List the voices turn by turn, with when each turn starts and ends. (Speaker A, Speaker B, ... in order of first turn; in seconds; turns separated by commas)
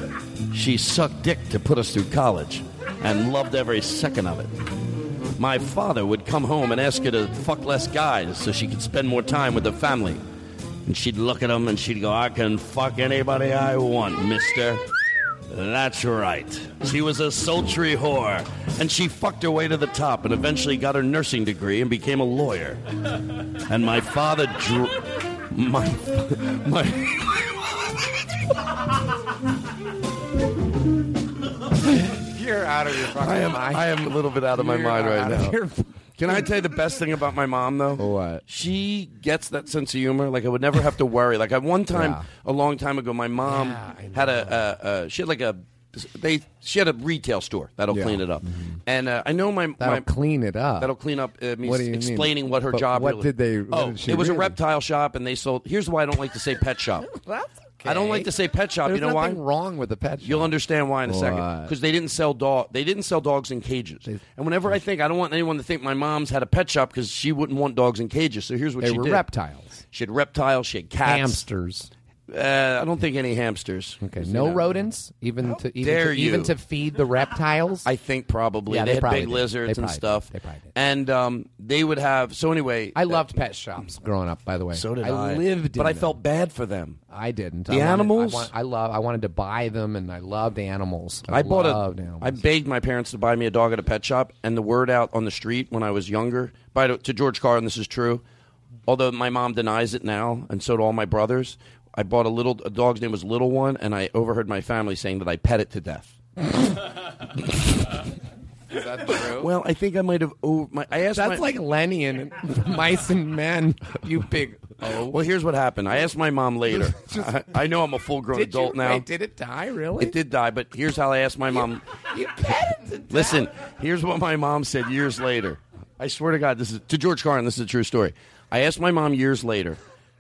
Speaker A: 0.5-4.6, Speaker A: 5.4-10.2, Speaker A: 10.8-14.8, Speaker A: 15.5-22.8, Speaker A: 23.7-27.6, Speaker B: 32.1-36.3, Speaker A: 33.1-35.6, Speaker A: 36.2-50.1, Speaker B: 38.0-38.4, Speaker B: 41.9-42.3, Speaker B: 43.4-44.7, Speaker B: 47.9-48.8, Speaker B: 49.8-50.9, Speaker A: 50.8-57.1, Speaker B: 51.6-54.6, Speaker B: 57.0-58.3, Speaker A: 57.8-59.4, Speaker B: 58.8-61.7, Speaker A: 60.2-69.2, Speaker B: 64.1-64.8, Speaker B: 68.8-69.8, Speaker A: 69.9-71.4, Speaker B: 71.0-71.9, Speaker A: 72.3-74.9, Speaker B: 74.0-77.9, Speaker A: 75.5-76.5, Speaker A: 77.9-83.3, Speaker B: 78.7-80.7, Speaker B: 83.0-86.2, Speaker A: 84.7-87.0, Speaker B: 87.1-92.4, Speaker A: 87.7-88.5, Speaker A: 91.3-98.2, Speaker A: 98.9-106.2, Speaker B: 108.7-109.5, Speaker A: 109.1-111.5, Speaker B: 111.0-115.2, Speaker A: 114.9-119.1, Speaker B: 116.7-117.6, Speaker B: 118.3-120.2, Speaker A: 120.0-121.8, Speaker B: 121.6-123.5, Speaker A: 123.1-129.8